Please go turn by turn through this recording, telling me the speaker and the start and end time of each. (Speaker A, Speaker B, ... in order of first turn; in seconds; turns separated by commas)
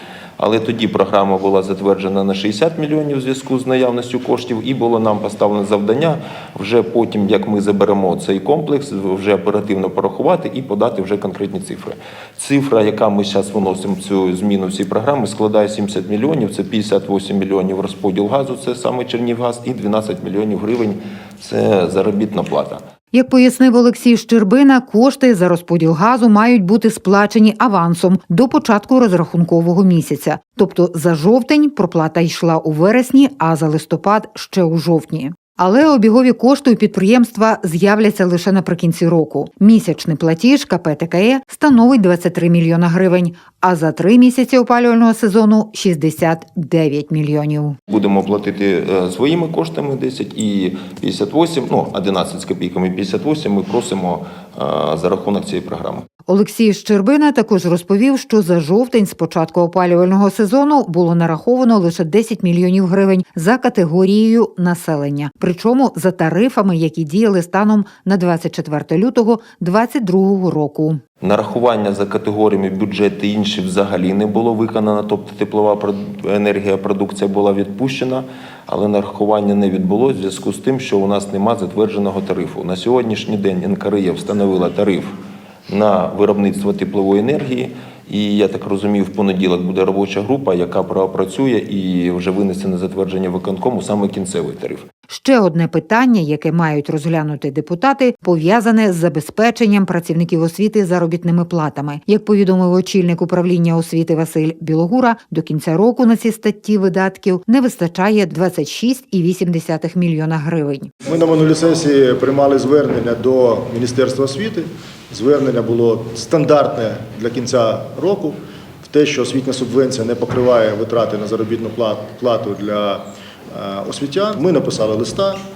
Speaker A: 0.4-22.8, Speaker B: 23.1-47.8, Speaker A: 47.9-56.0, Speaker B: 56.3-71.0, Speaker A: 71.2-85.1, Speaker A: 85.7-94.8, Speaker B: 95.1-110.9, Speaker C: 111.0-125.4